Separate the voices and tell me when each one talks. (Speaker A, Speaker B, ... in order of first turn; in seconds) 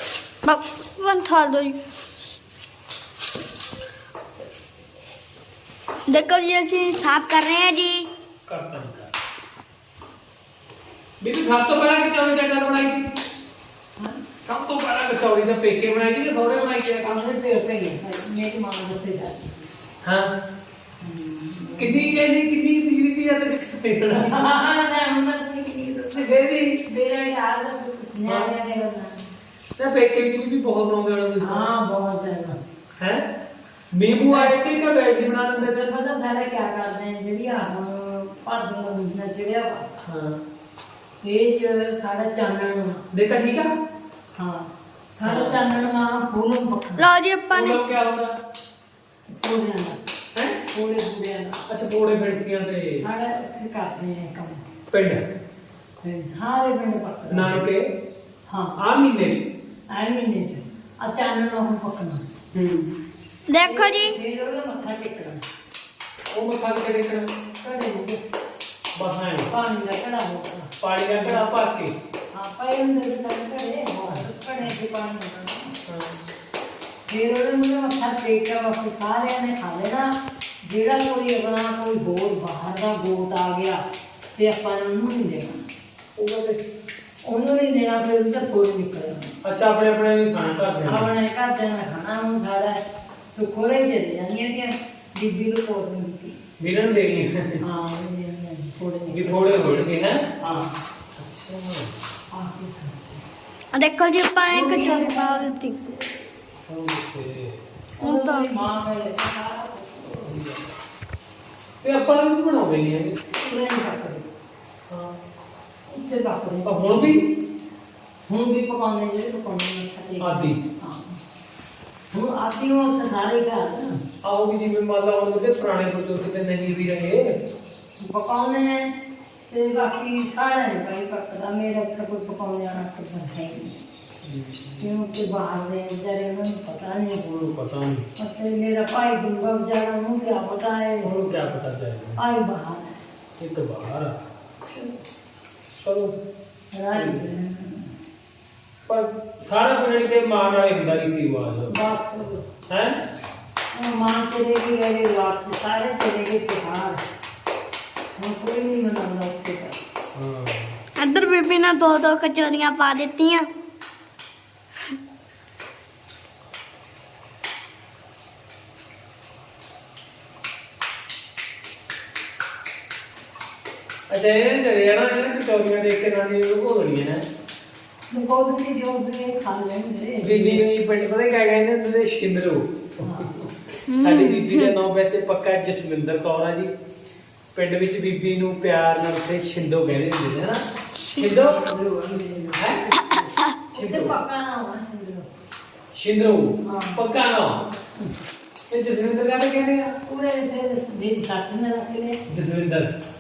Speaker A: 0.5-1.8, 6.1-8.1, 47.0-47.8, 63.5-64.2, 103.7-105.8, 108.0-108.6, 161.0-163.5, 183.9-184.7, 191.0-191.2
Speaker B: 8.5-9.1, 11.2-13.1, 14.4-17.1, 20.0-20.3, 21.8-24.4, 26.1-26.8, 28.3-28.5, 29.8-31.7, 33.0-33.2, 33.9-35.7, 40.0-40.4, 43.1-43.7, 45.2-45.6, 47.5-48.3, 51.7-53.1, 54.9-55.2, 57.3-57.8, 58.8-59.4, 62.5-62.9, 66.3-67.3, 69.0-69.5, 70.8-71.9, 75.9-76.2, 86.2-86.6, 89.4-91.1, 96.6-97.6, 99.1-100.2, 101.2-101.9, 106.7-107.6, 110.2-110.7, 111.8-113.2, 114.9-115.2, 116.6-117.2, 120.2-120.6, 124.2-127.3, 134.2-134.9, 137.3-138.1, 141.0-142.2, 143.4-144.2, 145.7-146.1, 146.9-147.2, 148.9-151.8, 152.7-153.0, 160.1-160.8, 174.1-177.3, 180.2-186.7, 187.5-190.6, 191.1-191.6, 192.6-192.8, 193.8-194.2, 195.9-197.6, 198.7-199.9, 202.3-202.9
Speaker C: 14.0-14.2, 17.0-19.7, 21.0-22.2, 24.1-29.3, 31.4-32.6, 34.3-34.5, 35.6-39.9, 41.2-43.0, 44.4-47.0, 49.3-50.0, 50.7-51.6, 53.0-54.7, 56.0-57.6, 58.5-58.8, 59.9-62.2, 63.6-65.4, 67.6-68.2, 69.5-71.4, 72.3-75.8, 77.1-80.1, 80.6-83.8, 84.4-85.6, 87.3-89.4, 90.8-92.8, 93.3-96.4, 97.6-99.6, 100.4-100.7, 102.3-103.2, 104.5-106.0, 107.9-110.3, 113.3-114.3, 115.9-117.2, 118.3-121.2, 122.1-124.0, 128.0-128.9, 129.5-133.8, 134.8-137.5, 138.2-141.1, 142.2-143.0, 144.7-145.0, 146.7-147.9, 151.7-152.4, 153.7-157.0, 158.2-159.8, 178.1-180.6, 183.0-183.3, 191.2-195.3, 196.6-197.0, 200.1-202.2